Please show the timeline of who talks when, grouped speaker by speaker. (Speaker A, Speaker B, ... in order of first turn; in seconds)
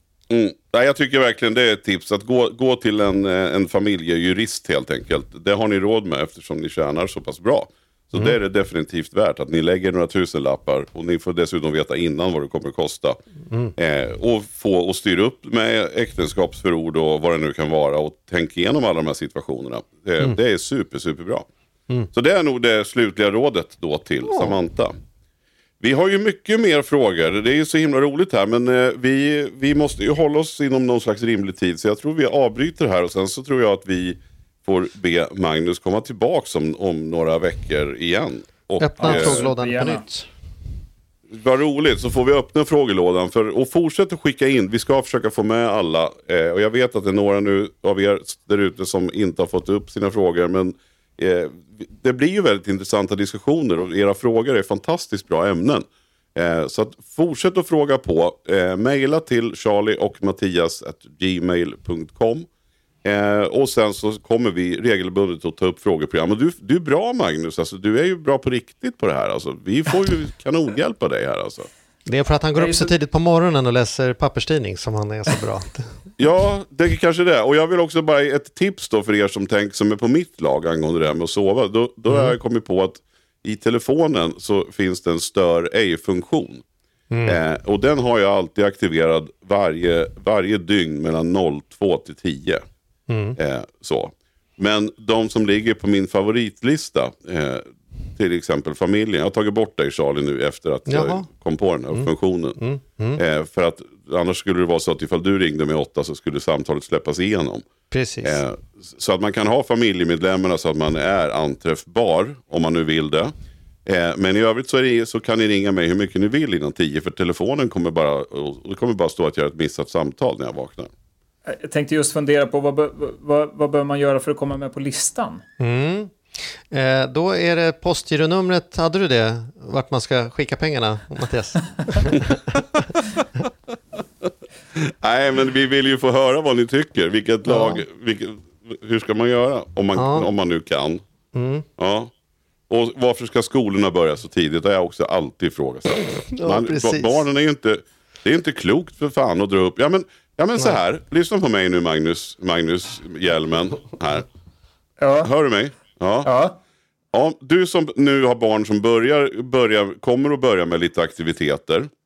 Speaker A: 0.3-13.2, 13.8-21.5, 22.1-24.9, 25.8-39.5, 41.3-62.5, 63.0-71.7, 76.2-86.6, 87.2-92.6, 93.3-102.6, 103.2-107.7, 108.2-113.3, 113.8-120.9, 134.8-141.0, 141.8-142.1, 142.7-154.2, 155.2-156.3, 157.1-161.9
Speaker B: 24.3-24.6, 38.8-40.3, 72.0-75.9, 82.1-82.3, 87.1-87.4, 93.1-93.4, 100.9-101.3, 101.9-103.2, 107.9-108.4, 125.6-132.9, 137.4-137.8, 139.9-140.3, 141.3-141.7, 146.0-147.2
Speaker C: 39.0-40.0, 72.6-72.9, 121.5-125.4, 155.0-155.3, 156.2-156.6